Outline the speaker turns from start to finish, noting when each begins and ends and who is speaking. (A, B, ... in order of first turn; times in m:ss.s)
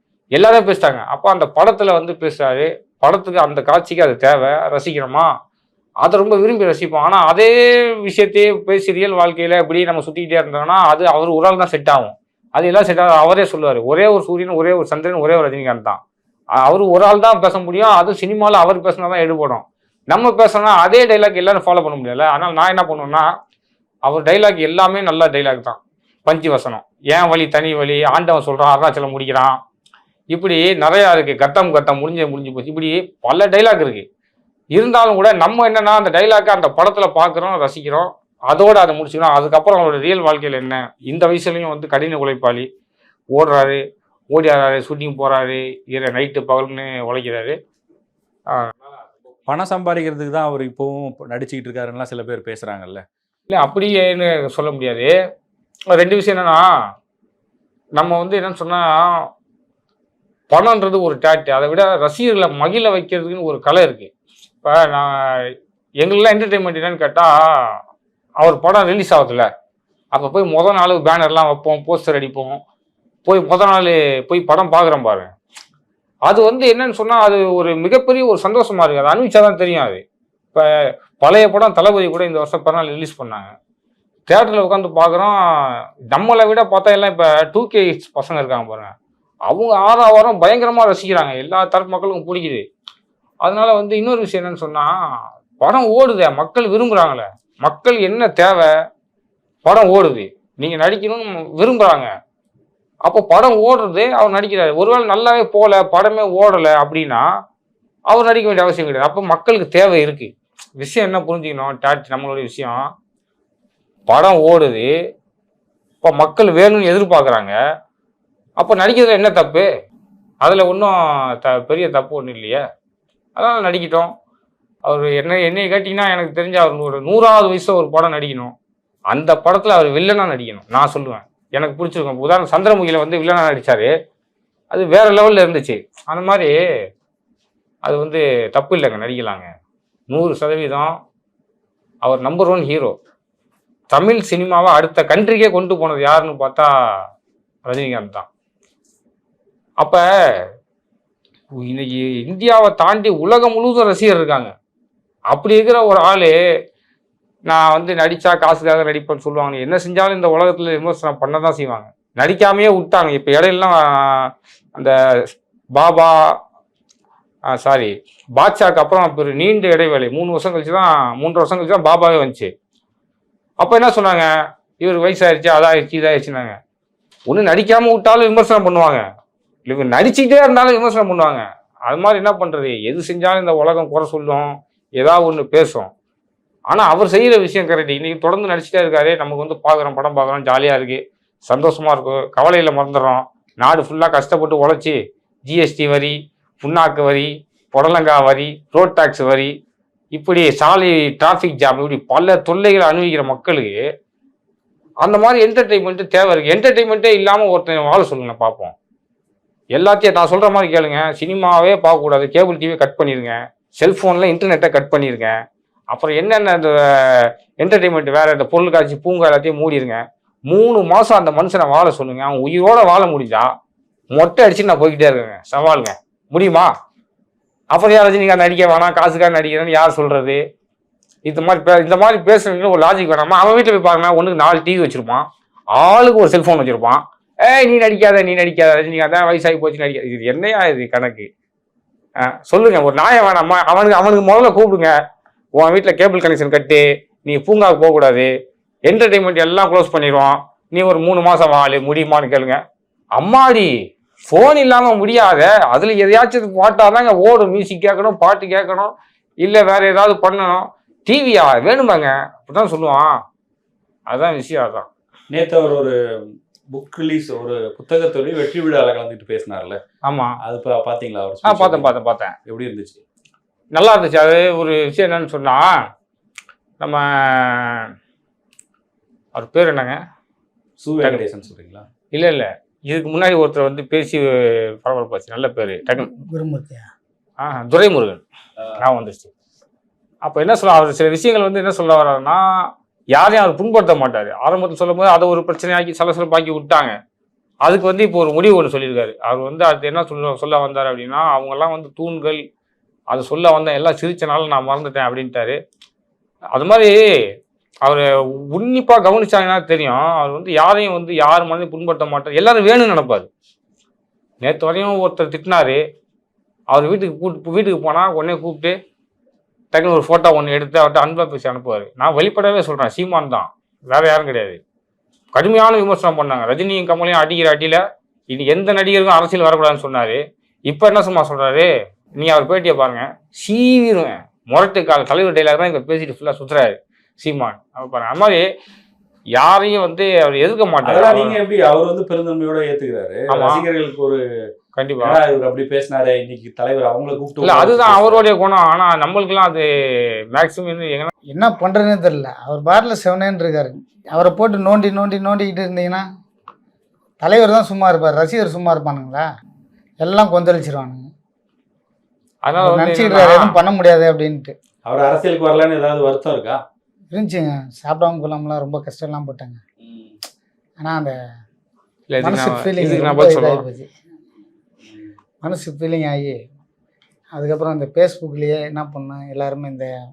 0:00.4-0:05.3 A
0:06.0-0:16.0 A
0:16.6-0:23.3 A
0:24.1-0:29.6 A
0:30.3-0:34.1 A
0:34.7-0:42.7 A
0:43.3-0:43.8 A
0:44.3-0:47.6 A
0:49.5-0:53.0 B
0:53.5-0:55.2 A
0:55.9-0:56.7 A
0:58.0-0:59.3 A
1:00.5-1:04.1 A
1:04.6-1:07.8 A
1:08.4-1:09.5 A
1:10.1-1:12.6 A
1:13.3-1:15.3 A
1:16.3-1:20.0 A
1:21.2-1:23.5 A
1:24.3-1:28.9 A
1:29.5-1:32.6 A
1:33.4-1:34.9 A
1:35.6-1:38.7 A
1:39.6-1:42.1 A
1:43.0-1:47.3 A
1:48.1-1:52.9 A
1:54.1-1:54.9 A
1:56.0-1:57.6 A
1:58.6-1:59.7 A
2:00.4-2:02.6 A
2:03.4-2:04.1 A
2:04.8-2:08.5 A
2:09.1-2:13.9 A
2:14.7-2:16.5 A
2:17.8-2:19.5 A
2:20.1-2:21.0 A
2:22.0-2:23.0 A
2:23.9-2:27.0 A
2:27.7-2:28.3 A
2:31.6-2:34.5 A
2:35.3-2:36.4 A
2:37.5-2:44.9 A
2:45.8-2:46.4 A
2:47.5-2:52.5 A
2:53.6-2:56.6 A
2:57.3-2:59.0 A
2:59.7-3:05.9 A
3:06.7-3:19.5 A
3:20.1-3:23.8 A
3:25.0-3:28.8 A
3:29.8-3:35.4 A
3:35.9-3:43.5 A
3:44.1-3:46.7 A
3:47.7-3:50.4 A
3:51.3-4:01.3 A
4:02.2-4:04.9 A
4:05.6-4:08.3 A
4:08.9-4:12.6 A
4:13.2-4:13.7 A
4:14.3-4:23.1 A
4:24.1-4:24.9 A
4:25.3-4:29.8 B
4:30.0-4:30.4 A
4:30.4-4:31.9 B
4:31.4-4:32.4 A
4:32.5-4:33.0 B
4:33.7-4:35.7 A
4:36.8-4:37.9 A
4:39.4-4:40.0 A
4:40.8-4:41.9 B
4:42.1-4:46.1 A
4:45.9-4:46.9 C
4:47.4-4:48.2 A
4:48.8-4:49.3 A
4:50.2-4:57.0 A
4:57.6-5:02.4 A
5:03.1-5:05.6 A
5:06.5-5:07.0 A
5:07.8-5:13.3 A
5:14.4-5:15.8 A
5:16.7-5:18.8 A
5:19.7-5:24.6 A
5:25.4-5:38.5 A
5:39.4-5:41.4 A
5:40.8-5:44.2 B
5:43.3-5:43.6 A
5:44.8-5:45.2 A
5:45.0-5:48.3 B
5:47.4-5:51.1 A
5:51.3-5:56.0 C
5:57.2-5:59.3 C
6:00.0-6:01.1 C
6:02.4-6:03.6 A
6:02.6-6:04.6 C
6:04.9-6:06.6 B
6:07.1-6:09.6 C
6:09.8-6:10.2 B
6:10.8-6:11.2 C
6:12.1-6:13.6 A
6:12.2-6:13.9 C
6:14.8-6:15.1 B
6:15.4-6:16.4 C
6:17.4-6:19.9 C